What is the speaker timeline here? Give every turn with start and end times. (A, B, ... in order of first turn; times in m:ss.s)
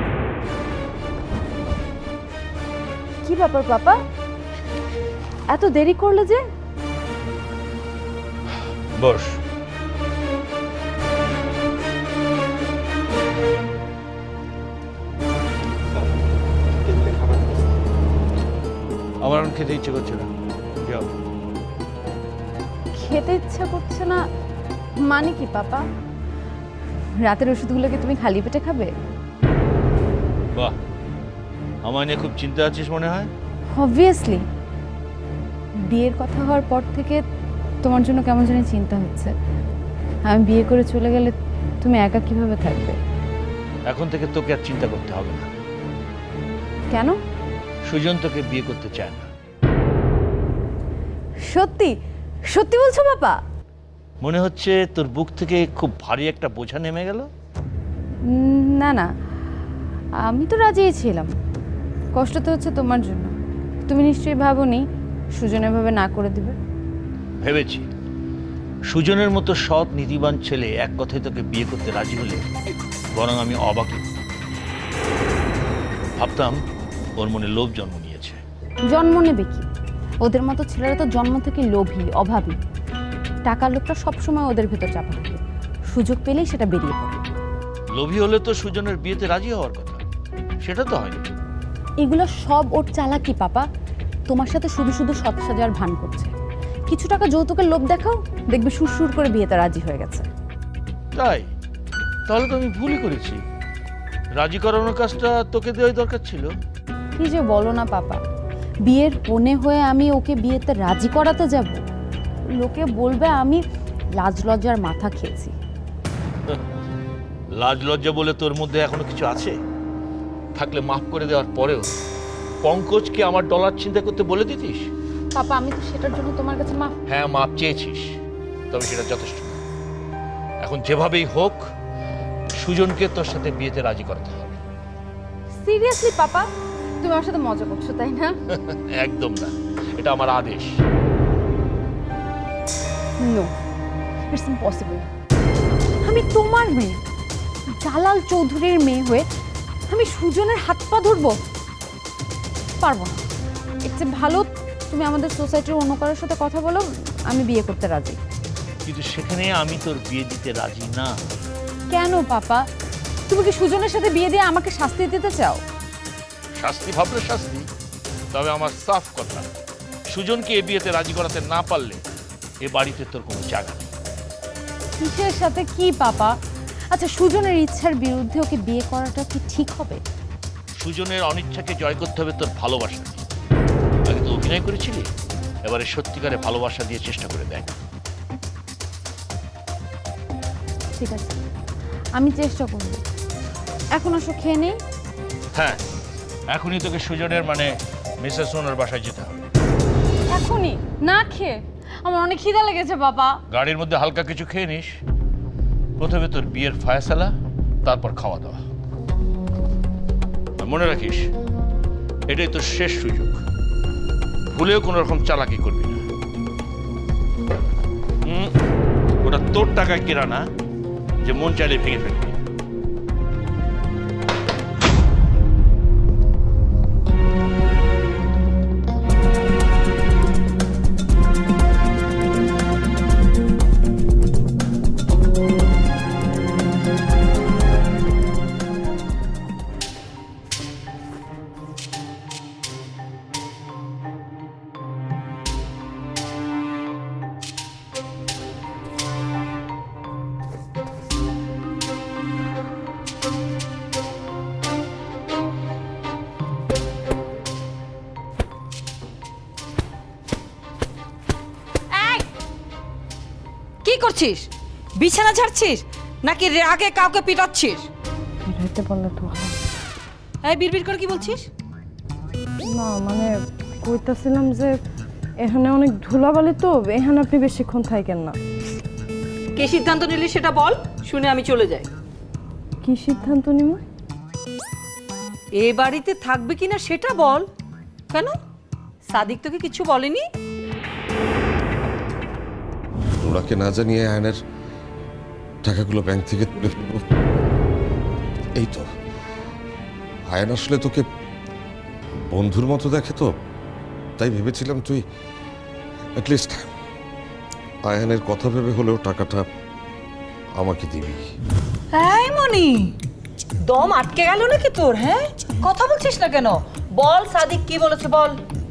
0:03.2-0:04.0 A
0:05.5-0:06.4 A
0:09.0-0:09.4 B
0:19.2-0:20.3 B
0:20.8-0:21.1 B
0:22.9-0:24.3 A
0:25.0-0:25.8 A
0:27.2-0:29.0 A
0:31.8-0:33.3 B
0:33.7-0:34.4 A
0:35.9-0:37.2 A
0:37.8-0:39.3 A
0:40.3-0:43.0 A
0:43.9-0:45.5 B
0:46.9-0:47.2 A
0:47.9-0:49.3 B
0:51.5-0:52.0 A
0:52.5-0:53.4 A
0:54.2-0:57.3 B
0:58.3-0:59.1 A
1:00.3-1:01.3 A
1:02.2-1:03.3 A
1:03.9-1:06.6 A
1:07.4-1:07.9 B
1:08.9-1:12.5 B
1:13.1-1:14.1 B
1:16.2-1:16.6 B
1:17.2-1:18.4 B
1:18.9-1:19.7 A
1:20.2-1:22.6 A
1:23.4-1:25.4 A
1:25.9-1:27.3 A
1:28.0-1:30.0 B
1:30.6-1:31.2 B
1:32.0-1:33.7 A
1:34.3-1:36.3 A
1:36.9-1:40.3 A
1:41.2-1:41.5 B
1:42.3-1:43.4 B
1:44.4-1:46.5 B
1:47.2-1:48.2 A
1:48.9-1:51.8 A
1:52.6-1:53.6 A
1:54.2-1:55.5 A
1:57.6-1:59.6 B
2:00.6-2:01.9 B
2:02.6-2:04.9 B
2:05.4-2:07.0 A
2:07.1-2:08.2 B
2:08.7-2:09.6 B
2:10.6-2:11.7 B
2:12.6-2:14.6 B
2:15.5-2:16.5 A
2:17.0-2:18.4 A
2:18.7-2:20.7 B
2:23.2-2:23.5 A
2:24.3-2:25.1 A
2:26.0-2:27.0 A
2:27.8-2:29.3 A
2:29.9-2:31.4 A
2:32.8-2:33.2 A
2:33.9-2:38.2 A
2:38.9-2:41.1 B
2:41.9-2:42.6 A
2:43.3-2:45.6 A
2:46.6-2:47.7 B
2:48.3-2:49.5 B
2:50.1-2:52.0 B
2:52.6-2:53.9 B
2:55.0-2:56.4 A
2:56.9-3:00.0 A
3:00.8-3:03.2 B
3:04.1-3:05.1 B
3:05.7-3:07.8 B
3:10.9-3:11.4 A
3:12.2-3:13.0 A
3:13.9-3:14.8 A
3:15.6-3:15.8 B
3:16.5-3:17.7 B
3:18.2-3:19.5 B
3:20.3-3:23.4 A
3:23.5-3:24.9 B
3:26.0-3:27.3 B
3:27.8-3:28.6 B
3:30.6-3:31.3 B
3:32.3-3:33.4 B
3:34.5-3:36.1 B
3:38.2-3:38.5 B
3:39.2-3:40.4 B
3:41.2-3:42.4 B
4:21.9-4:22.2 C
4:23.8-4:27.9 C
4:28.5-4:29.6 D
4:30.4-4:31.5 C
4:32.7-4:34.8 D
4:35.4-4:38.4 D
4:39.6-4:41.9 C
4:42.8-4:43.8 D
4:45.6-4:47.5 C
4:49.1-4:50.2 C
4:53.2-4:54.4 E
4:55.6-4:57.0 E
4:58.6-4:58.8 E
5:00.3-5:01.0 E
5:02.3-5:03.3 E
5:04.2-5:05.0 E
5:06.2-5:06.7 E
5:07.9-5:09.4 E
5:10.6-5:11.2 E
5:11.9-5:12.9 C
5:13.7-5:18.4 C